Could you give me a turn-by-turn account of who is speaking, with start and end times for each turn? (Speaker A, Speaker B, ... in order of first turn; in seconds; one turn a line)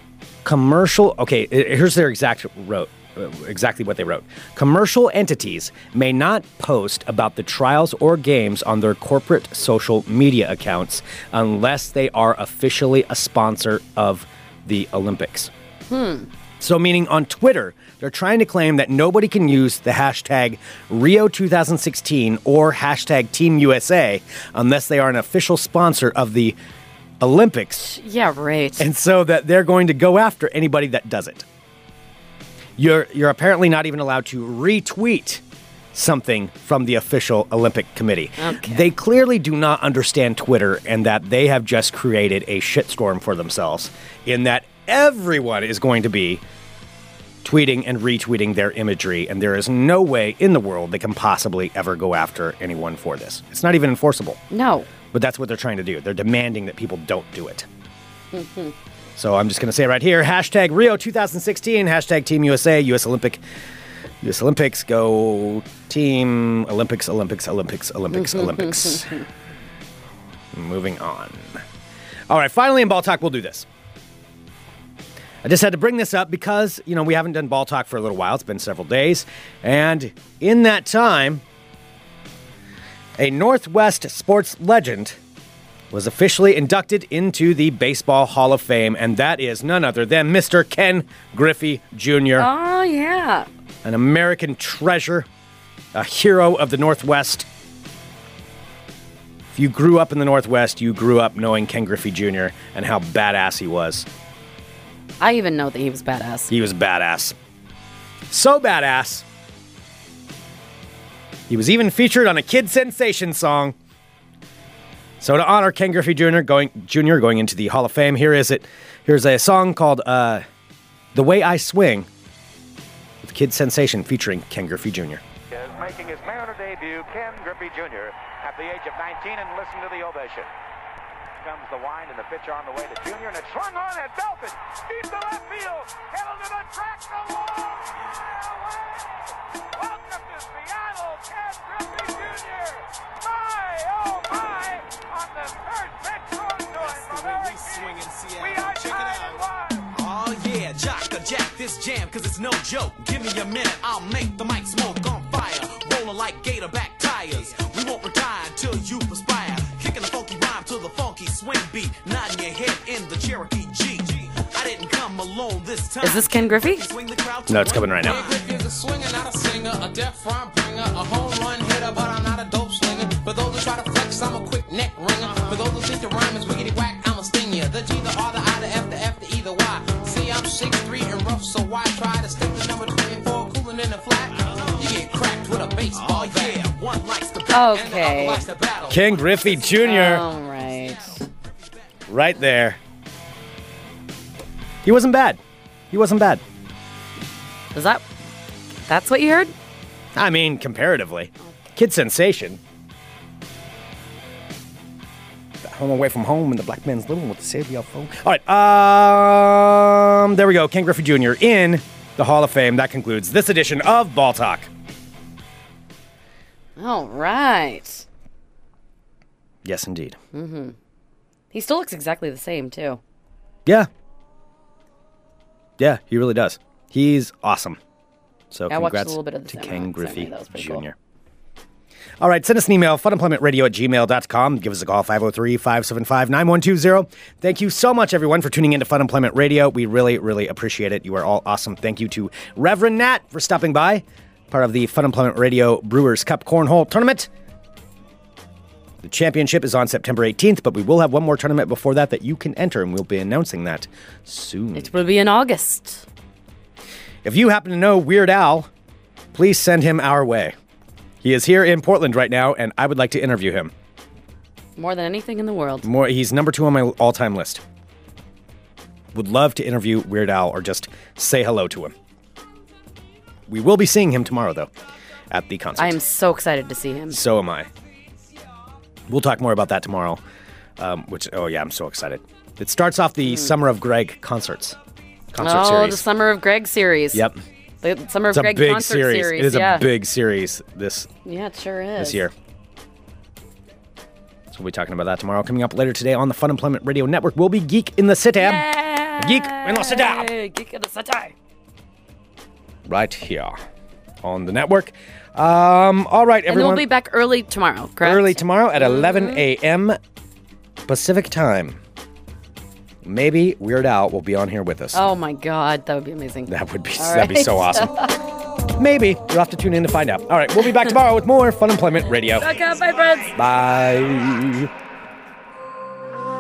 Speaker A: 0.4-15.5
Speaker B: 15.9-16.3
Speaker A: 16.6-26.6
Speaker A: 27.2-27.8
Speaker B: 27.8-28.8
Speaker A: 28.8-31.4
Speaker A: 32.8-35.4
Speaker A: 35.9-46.4
Speaker B: 38.4-38.8
Speaker A: 47.4-54.4
Speaker B: 54.5-54.9
Speaker A: 55.1-57.7
Speaker B: 58.3-58.7
Speaker A: 59.1-63.4
Speaker A: 64.2-69.2
Speaker B: 68.1-69.2
Speaker A: 70.5-71.6
Speaker A: 72.3-73.7
Speaker A: 75.4-81.4
Speaker A: 83.2-85.2
Speaker A: 85.9-92.5
Speaker B: 92.4-93.5
Speaker A: 93.8-95.3
Speaker A: 95.9-97.5
Speaker A: 99.5-104.1
Speaker B: 105.2-106.5
Speaker A: 106.5-107.4
Speaker A: 108.3-109.2
Speaker A: 111.5-113.7
Speaker A: 115.2-120.4
Speaker A: 121.1-122.1
Speaker A: 123.2-125.2
Speaker C: 125.5-130.5
Speaker C: 131.4-149.9
Speaker D: 146.8-149.4
Speaker D: 149.9-168.6
Speaker B: 166.0-166.9
Speaker A: 167.5-168.2
Speaker E: 168.0-186.7
Speaker D: 184.4-185.1
Speaker D: 185.9-191.3
Speaker B: 187.5-188.4
Speaker E: 187.8-188.6
Speaker A: 188.9-190.2
Speaker B: 189.8-191.2
Speaker A: 192.1-192.8
Speaker A: 194.8-196.4
Speaker B: 197.7-198.0
Speaker B: 198.9-199.5
Speaker A: 200.1-202.6
Speaker A: 205.6-214.7
Speaker B: 216.8-218.0
Speaker A: 219.6-220.2
Speaker B: 220.3-220.7
Speaker B: 221.5-223.0
Speaker A: 225.8-227.8
Speaker A: 228.5-230.9
Speaker B: 228.7-230.8
Speaker A: 232.2-247.3
Speaker A: 249.0-254.9
Speaker B: 254.7-256.0
Speaker A: 257.2-258.7
Speaker A: 259.3-260.6
Speaker A: 261.2-263.7
Speaker B: 264.8-265.9
Speaker A: 265.8-267.6
Speaker A: 269.1-271.9
Speaker A: 273.5-274.7
Speaker A: 275.3-276.0
Speaker B: 275.8-277.2
Speaker A: 277.1-277.7
Speaker A: 279.1-280.2
Speaker A: 280.8-284.8
Speaker B: 283.2-283.5
Speaker A: 285.3-286.0
Speaker B: 285.4-287.2
Speaker B: 287.8-289.9
Speaker A: 288.3-291.1
Speaker B: 291.2-292.2
Speaker A: 292.0-292.3
Speaker A: 294.5-298.6
Speaker B: 298.4-301.3
Speaker A: 299.2-300.3
Speaker A: 302.8-303.6
Speaker A: 304.2-306.9
Speaker B: 306.5-309.4
Speaker A: 308.0-310.0
Speaker A: 310.9-311.8
Speaker A: 313.0-315.0
Speaker B: 314.9-318.2
Speaker A: 316.5-318.1
Speaker A: 318.7-322.5
Speaker B: 322.4-323.4
Speaker A: 323.3-324.7